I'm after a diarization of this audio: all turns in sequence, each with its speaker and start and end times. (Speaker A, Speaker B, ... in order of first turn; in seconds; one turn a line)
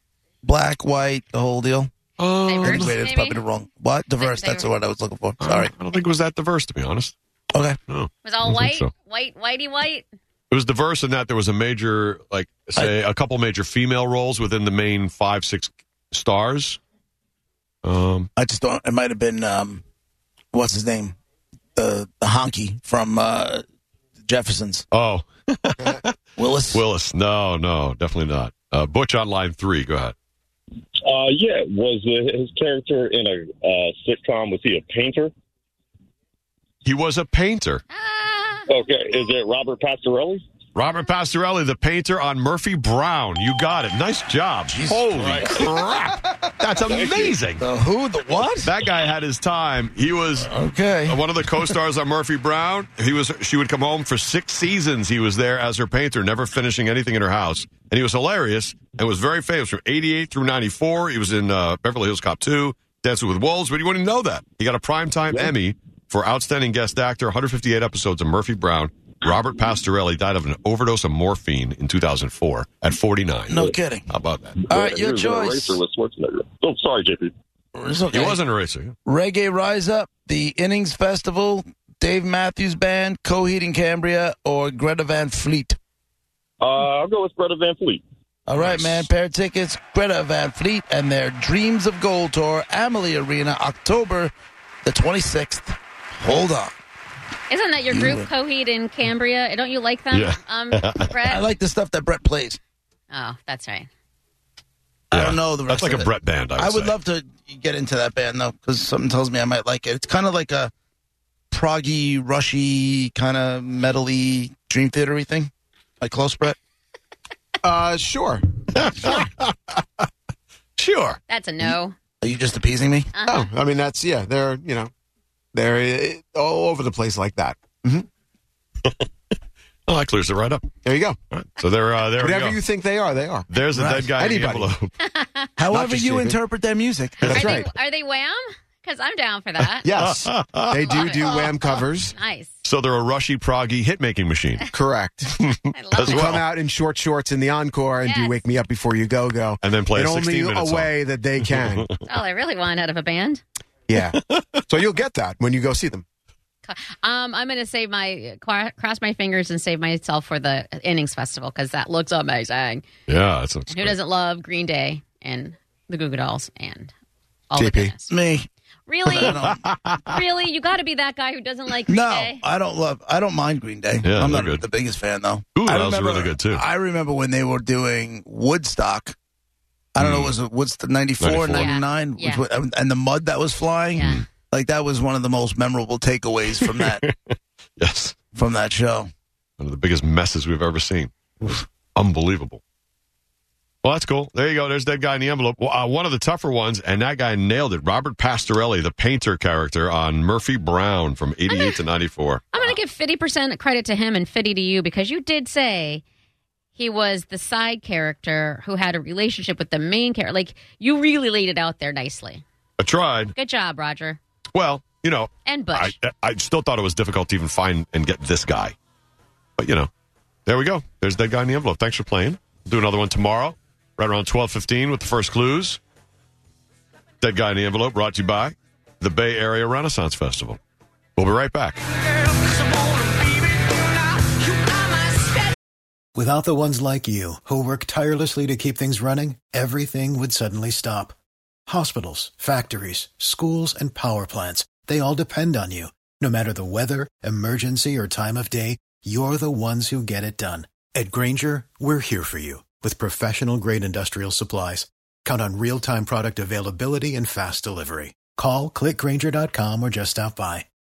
Speaker A: 0.4-1.9
Speaker B: 2.2-3.0
Speaker C: 2.5-3.4
Speaker A: 2.6-5.7
Speaker C: 4.2-4.7
Speaker B: 5.4-7.2
Speaker A: 7.5-7.8
Speaker B: 7.9-8.9
Speaker C: 8.2-10.1
Speaker B: 10.5-16.8
Speaker B: 17.8-18.3
Speaker A: 18.4-19.8
Speaker A: 20.5-21.2
Speaker A: 21.8-23.6
Speaker A: 24.2-24.9
Speaker B: 24.9-26.1
Speaker A: 26.4-26.8
Speaker B: 26.7-30.1
Speaker D: 31.1-35.3
Speaker B: 36.8-37.8
Speaker C: 38.0-38.6
Speaker D: 38.7-40.4
Speaker B: 40.8-47.6
Speaker A: 44.7-45.7
Speaker A: 47.6-48.7
Speaker B: 48.6-50.5
Speaker A: 50.4-51.7
Speaker B: 51.1-74.7
Speaker A: 73.5-74.1
Speaker A: 74.7-75.8
Speaker D: 74.8-77.2
Speaker A: 77.8-78.4
Speaker B: 78.1-79.0
Speaker A: 79.1-85.8
Speaker D: 86.6-88.0
Speaker A: 88.5-94.3
Speaker B: 88.6-89.1
Speaker A: 94.8-96.7
Speaker C: 97.5-101.5
Speaker A: 97.9-98.3
Speaker B: 100.1-101.2
Speaker A: 101.3-102.6
Speaker C: 103.1-103.9
Speaker A: 105.1-110.7
Speaker B: 105.1-107.0
Speaker A: 111.5-116.6
Speaker E: 117.6-119.2
Speaker B: 118.9-119.5
Speaker B: 120.8-121.2
Speaker C: 121.3-122.0
Speaker A: 122.2-123.1
Speaker C: 123.2-123.5
Speaker E: 123.2-124.9
Speaker E: 125.5-128.1
Speaker B: 129.9-130.7
Speaker E: 130.8-131.4
Speaker B: 131.6-132.6
Speaker E: 132.2-134.7
Speaker B: 133.5-134.9
Speaker A: 133.7-134.2
Speaker C: 135.1-135.5
Speaker A: 135.6-137.4
Speaker E: 135.7-136.4
Speaker E: 137.2-137.7
Speaker C: 137.2-139.9
Speaker E: 139.8-142.2
Speaker B: 139.9-140.8
Speaker C: 140.8-142.6
Speaker B: 142.6-144.7
Speaker E: 144.7-145.4
Speaker B: 145.4-146.4
Speaker C: 145.7-146.5
Speaker E: 146.0-152.0
Speaker C: 148.0-148.4
Speaker B: 149.6-150.9
Speaker B: 151.4-151.9
Speaker C: 152.1-153.4
Speaker E: 153.9-156.1
Speaker B: 154.1-154.6
Speaker C: 156.6-162.9
Speaker B: 163.1-164.0
Speaker C: 163.7-166.9
Speaker C: 167.5-168.1
Speaker E: 167.6-168.0
Speaker A: 168.1-168.5
Speaker C: 168.9-169.5
Speaker A: 169.1-169.6
Speaker C: 170.1-172.4
Speaker A: 171.9-179.2
Speaker B: 174.0-174.7
Speaker B: 175.6-176.6
Speaker A: 179.9-187.0
Speaker B: 180.0-180.3
Speaker B: 181.2-181.7
Speaker C: 181.5-182.4
Speaker C: 183.9-184.2
Speaker B: 186.9-188.2
Speaker A: 188.3-189.1
Speaker B: 189.6-192.6
Speaker B: 193.8-202.7
Speaker C: 201.5-201.8
Speaker C: 202.5-206.0
Speaker C: 206.8-212.4
Speaker B: 212.8-213.3
Speaker C: 213.4-214.2
Speaker B: 214.5-218.8
Speaker C: 215.5-215.9
Speaker B: 219.6-219.9
Speaker B: 220.5-225.8
Speaker B: 227.2-230.6
Speaker B: 231.2-231.8
Speaker F: 236.2-241.2
Speaker F: 241.7-260.7